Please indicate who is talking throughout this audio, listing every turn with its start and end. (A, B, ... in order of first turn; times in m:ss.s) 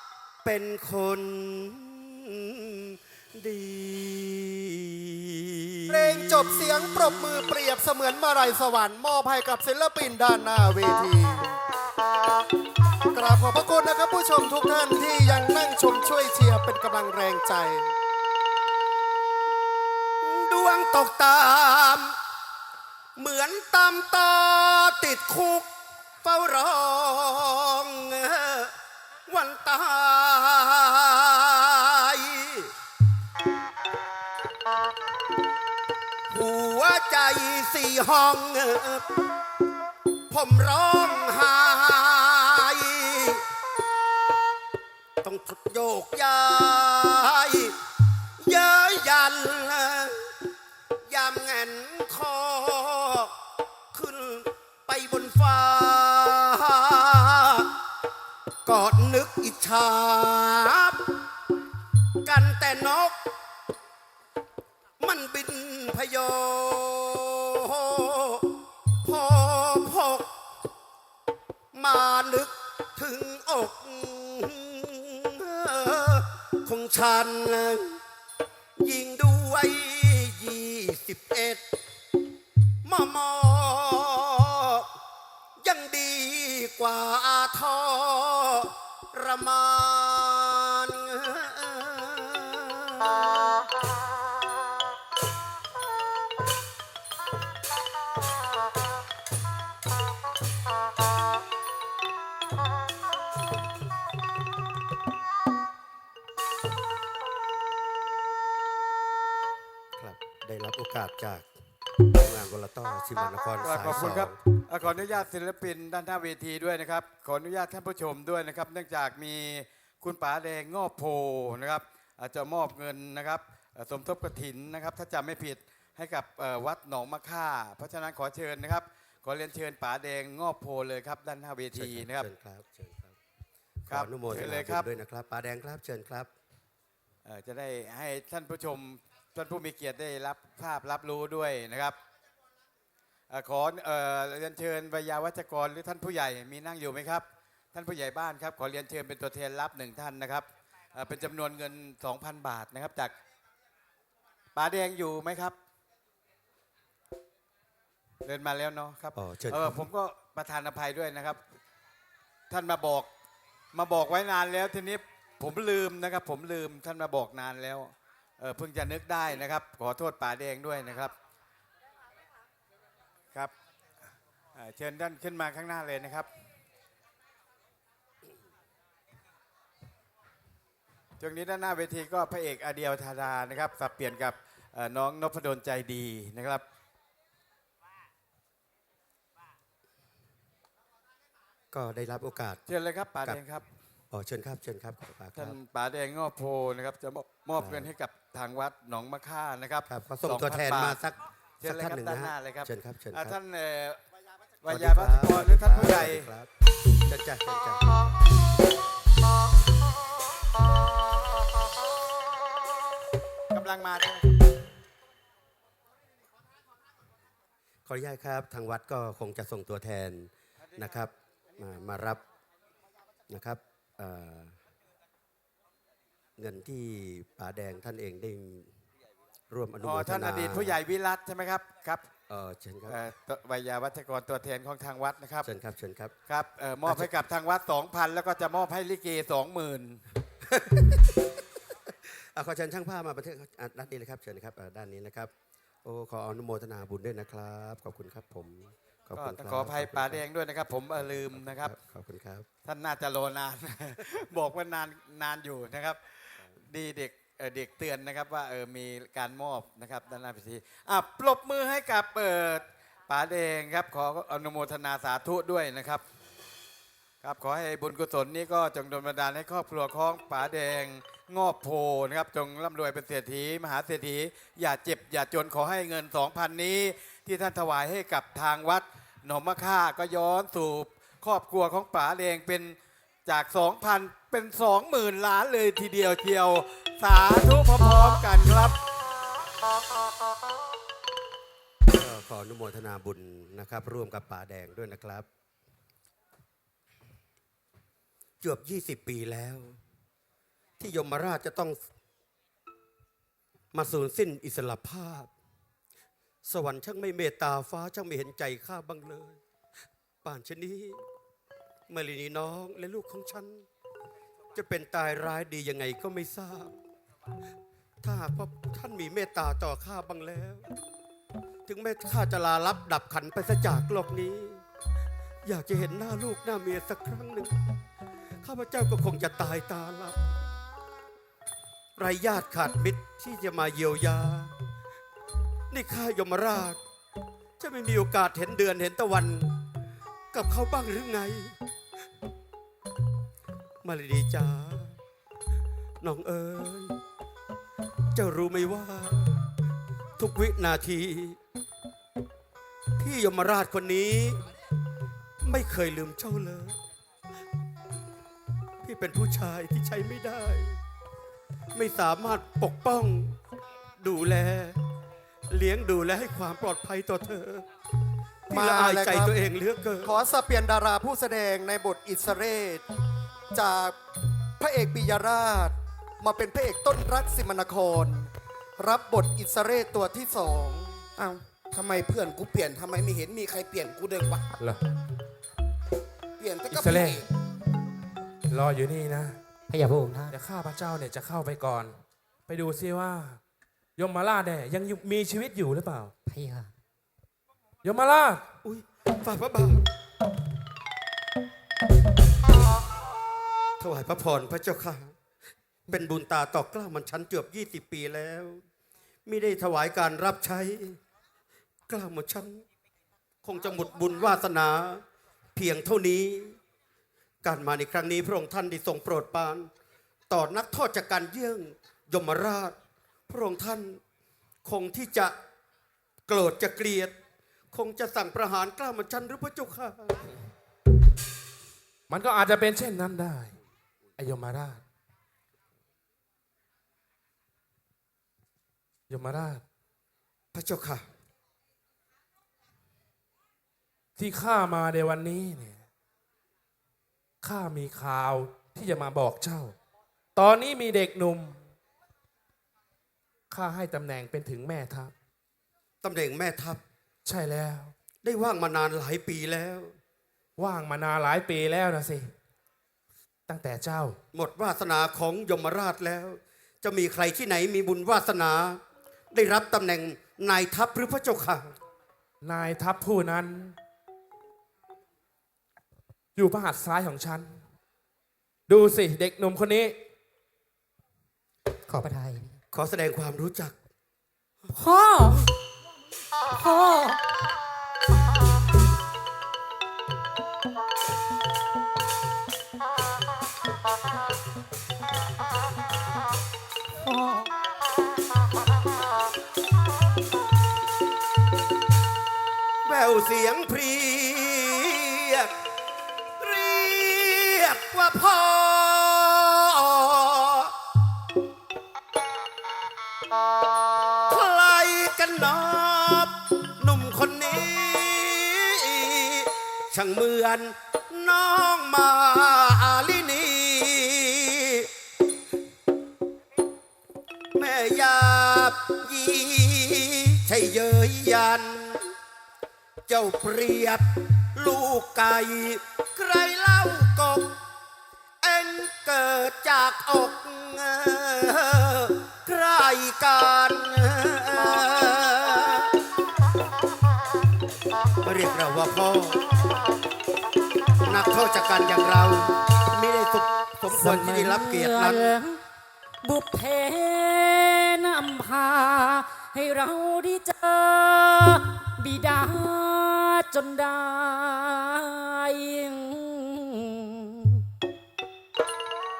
0:00.4-0:06.4 A
0:05.9-0:11.5 B
0:13.1-0:17.9 B
0:20.2-0:22.1 A
0:23.2-0:25.7 A
0:26.2-0:28.7 A
0:29.3-0:32.7 A
0:36.3-0:39.0 A
0:40.3-0:43.4 A
0:45.2-0:47.7 A
0:48.4-0:50.3 A
0:51.1-0:53.3 A
0:53.9-0:57.7 A
0:58.6-1:01.0 A
1:02.2-1:03.2 A
1:05.0-1:08.5 A
1:09.0-1:10.3 A
1:11.7-1:18.0 A
1:18.8-1:21.6 A
1:22.8-1:24.9 A
1:25.6-1:33.6 A
1:50.0-1:51.5 A
1:52.1-1:54.4 A
1:53.6-2:12.3 C
2:11.7-2:13.2 A
2:13.9-2:16.3 A
2:13.9-2:14.9 C
2:17.2-2:22.0 C
2:23.3-2:33.1 C
2:34.5-2:35.6 C
2:38.2-2:41.4 C
2:39.2-2:39.8 A
2:42.5-2:43.1 C
2:43.7-2:51.1 C
2:54.6-2:56.3 C
3:01.2-3:06.6 C
3:11.7-3:12.6 A
3:12.7-3:13.6 C
3:14.1-3:15.6 A
3:15.4-3:21.0 C
3:17.6-3:17.9 A
3:19.9-3:23.4 A
3:21.6-3:24.0 C
3:24.6-3:26.3 C
3:24.7-3:26.5 A
3:27.1-3:27.9 A
3:33.5-3:34.4 C
3:37.9-3:42.2 A
3:43.3-3:44.6 A
3:46.4-3:48.7 A
3:49.5-3:50.8 A
3:49.8-3:52.1 C
3:52.3-3:53.0 A
3:52.9-3:55.5 C
3:55.4-3:56.2 A
3:56.3-4:00.0 C
3:56.8-3:57.1 A
4:00.5-4:01.1 A
4:02.2-4:05.3 A
4:05.8-4:10.2 A
4:09.2-4:11.7 C
4:11.0-4:12.5 A
4:12.6-4:26.0 C
4:27.2-4:48.8 C
4:51.9-4:55.3 A
4:58.4-4:59.8 A
5:00.8-5:01.8 A
5:03.7-5:05.3 A
5:06.4-5:09.4 A
5:10.2-5:11.0 A
5:11.9-5:13.6 A
5:14.5-5:16.7 A
5:18.0-5:20.7 A
5:21.7-5:24.6 A
5:25.4-5:27.6 A
5:28.4-5:30.2 A
5:32.0-5:34.5 A
5:35.7-5:36.8 A
5:37.6-5:39.5 A
5:40.3-5:41.6 A
5:43.8-5:45.0 A
5:46.0-5:47.0 A
5:48.1-5:49.4 A
5:50.2-5:51.4 A
5:53.0-5:54.4 A
5:55.4-5:56.8 A
5:58.8-6:00.8 A
6:01.7-6:03.4 A
6:04.0-6:04.8 A
6:05.5-6:07.6 A
6:08.5-6:09.3 B
6:08.5-6:10.2 A
6:10.0-6:12.8 B
6:13.5-6:14.0 B
6:14.6-6:21.4 B
6:21.2-6:24.4 D
6:26.4-6:27.2 D
6:26.7-6:27.2 E
6:28.5-6:29.4 E
6:29.7-6:30.4 F
6:30.3-6:32.0 E
6:32.5-6:33.4 E
6:34.0-6:36.1 E
6:36.3-6:36.7 F
6:37.8-6:38.4 E
6:38.6-6:39.8 A
6:43.8-6:45.1 A
6:45.9-6:48.6 A
6:49.3-6:51.0 A
6:51.9-6:52.6 A
6:53.4-6:55.0 A
6:55.6-6:56.6 A
6:57.4-6:59.7 A
7:00.3-7:02.8 A
7:03.3-7:04.0 A
7:04.6-7:05.3 A
7:06.3-7:07.1 A
7:07.7-7:10.3 A
7:12.1-7:13.5 E
7:14.2-7:14.8 E
7:19.1-7:19.6 E
7:20.5-7:21.0 A
7:24.2-7:25.8 E
7:27.4-7:29.8 E
7:30.4-7:31.6 E
7:33.5-7:35.1 E
7:36.0-7:36.8 A
7:37.2-7:37.9 E
7:38.2-7:39.9 A
7:40.6-7:42.3 E
7:43.5-7:44.2 E
7:44.3-7:48.8 A
7:49.3-7:51.7 A
7:52.4-7:53.8 E
7:56.4-7:57.6 E
7:58.7-8:00.0 E
8:01.9-8:02.5 F
8:02.7-8:03.8 A
8:04.7-8:05.4 F
8:06.5-8:07.2 F
8:17.0-8:17.5 F
8:22.8-8:25.5 A
8:26.4-8:30.7 A
8:34.3-8:44.9 A
8:47.5-8:52.1 A
8:53.1-8:57.6 A
8:58.4-9:05.9 A
9:08.2-9:09.4 A
9:11.0-9:15.3 A
9:13.9-9:15.6 F
9:16.2-9:27.6 F